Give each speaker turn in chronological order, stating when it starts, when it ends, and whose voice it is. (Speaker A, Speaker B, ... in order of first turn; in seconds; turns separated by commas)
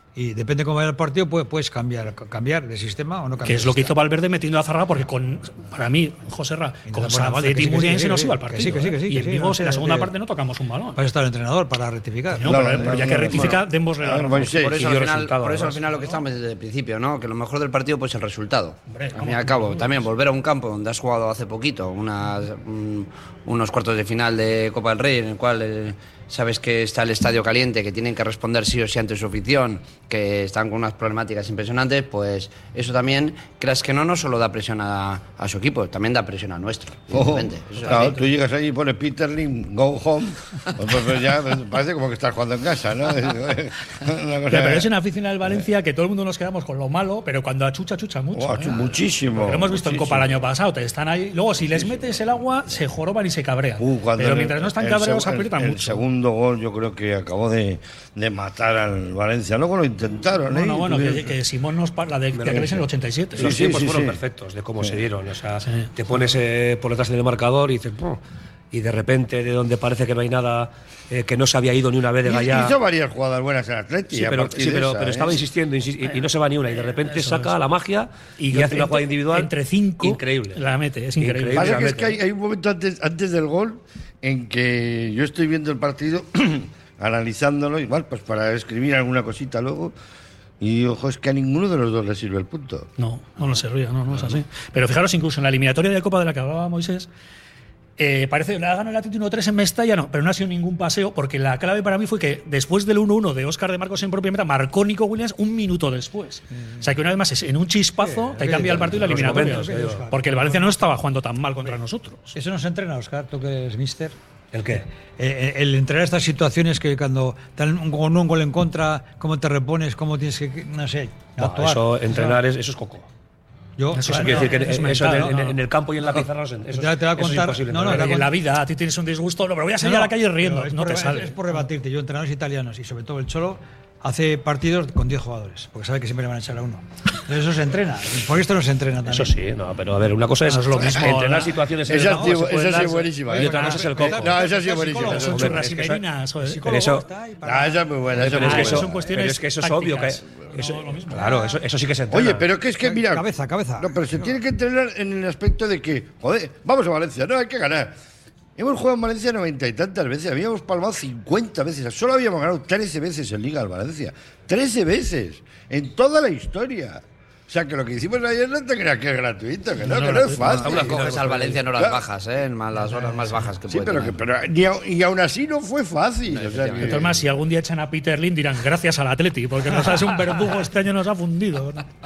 Speaker A: 0.2-3.9, Speaker B: 3.4-11.0, Speaker A: 6.9-10.1, Speaker A: 11.0-13.0, Speaker B: 12.3-14.6, Speaker C: 12.4-14.8, Speaker D: 14.5-38.2, Speaker E: 14.7-15.8, Speaker B: 18.9-20.1, Speaker C: 37.1-44.9, Speaker B: 37.8-38.1, Speaker B: 44.5-56.0, Speaker C: 48.3-50.4, Speaker C: 51.8-52.2, Speaker C: 53.8-61.3, Speaker B: 60.5-63.5, Speaker E: 62.4-62.8, Speaker C: 63.4-64.2, Speaker E: 63.4-68.2, Speaker B: 65.6-65.9, Speaker E: 68.7-72.7, Speaker C: 72.2-75.4, Speaker E: 74.1-80.6, Speaker B: 77.1-77.5, Speaker B: 78.4-81.8, Speaker E: 81.2-82.2, Speaker C: 81.5-89.9, Speaker C: 90.6-92.9, Speaker B: 93.0-97.1, Speaker B: 98.0-112.3, Speaker A: 108.0-110.8, Speaker E: 108.5-110.0, Speaker A: 112.3-114.2, Speaker E: 114.5-114.8, Speaker A: 115.2-122.4, Speaker E: 121.4-123.1, Speaker A: 123.8-125.4, Speaker B: 123.9-125.6, Speaker E: 124.0-128.2, Speaker A: 126.7-128.3, Speaker B: 127.8-131.6, Speaker A: 129.8-139.3, Speaker E: 139.1-144.4, Speaker B: 140.5-143.1, Speaker C: 141.9-145.5, Speaker A: 143.3-147.9, Speaker B: 145.0-146.7, Speaker E: 145.1-146.0, Speaker E: 146.7-147.1, Speaker C: 147.4-148.9, Speaker E: 148.1-152.5, Speaker B: 148.3-151.5, Speaker C: 152.1-153.3, Speaker A: 152.8-154.0, Speaker C: 153.8-157.9, Speaker C: 158.6-171.2, Speaker B: 169.8-170.7, Speaker E: 170.4-171.6, Speaker D: 170.7-174.2, Speaker C: 171.7-172.0, Speaker C: 173.7-177.2, Speaker D: 176.3-177.2, Speaker B: 176.8-181.9